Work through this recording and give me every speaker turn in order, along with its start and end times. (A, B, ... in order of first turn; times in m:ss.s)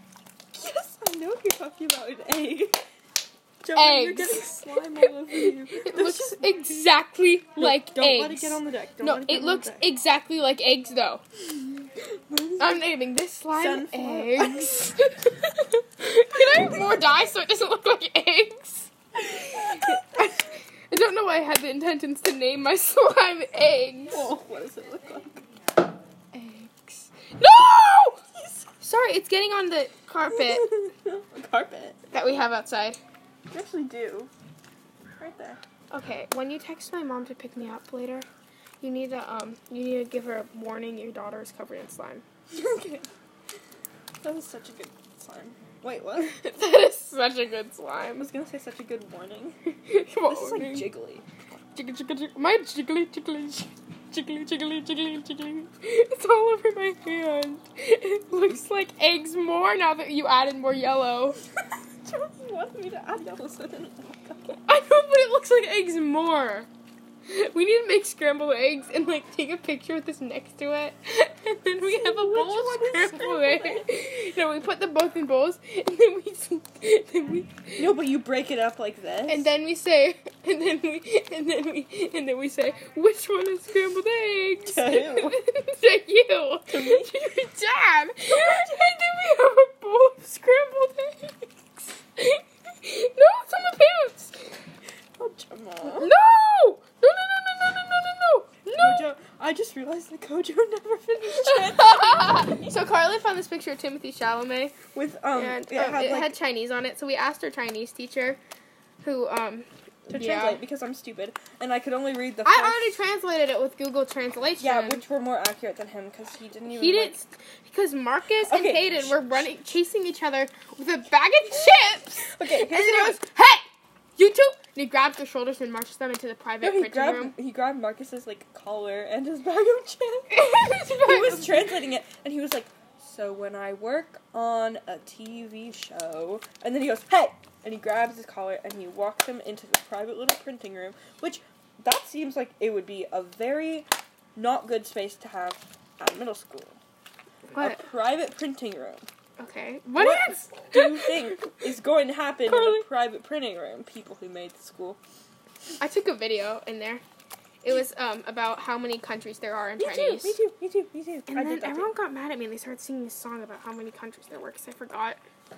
0:00.5-0:02.8 A
0:03.6-0:06.8 A
0:03.8-0:11.2 B
0:07.6-0:09.9 A
0:12.3-0:12.9 A
0:12.6-0:24.3 B
0:13.5-0:14.8 A
0:24.1-0:25.4 A
0:26.3-0:28.2 B
0:28.8-0:30.7 B
0:30.3-0:32.0 A
0:32.1-0:33.0 B
0:33.5-0:34.3 A
0:35.2-0:35.6 A
0:35.9-0:38.3 B
0:38.8-0:42.2 B
0:42.5-0:43.1 A
0:44.2-0:46.4 A
0:46.3-0:48.3 B
0:48.2-0:49.6 A
0:49.7-0:50.9 B
0:50.2-0:51.2 A
0:51.7-1:01.4 B
1:02.0-1:04.6 A
1:04.7-1:06.7 B
1:07.3-1:17.9 B
1:11.8-1:13.9 A
1:17.8-1:19.5 A
1:19.3-1:34.6 B
1:24.6-1:25.4 A
1:26.7-1:27.1 A
1:28.3-1:28.7 A
1:35.2-1:36.1 A
1:35.8-1:39.1 B
1:38.7-1:42.8 A
1:41.3-1:44.8 B
1:44.9-1:46.4 A
1:45.3-1:48.4 B
1:49.0-1:50.6 B
1:50.1-1:53.0 A
1:52.4-1:55.0 B
1:54.6-1:57.2 A
1:56.7-2:07.3 B
1:58.4-1:59.2 A
2:02.2-2:03.2 A
2:06.6-2:26.8 A
2:10.3-2:11.8 B
2:27.5-2:27.8 B
2:27.6-2:29.1 A
2:29.4-2:31.2 B
2:30.0-2:35.0 A
2:32.5-2:32.8 B
2:35.8-2:37.0 B
2:37.6-2:40.4 B
2:39.8-2:41.9 A
2:41.3-2:45.2 B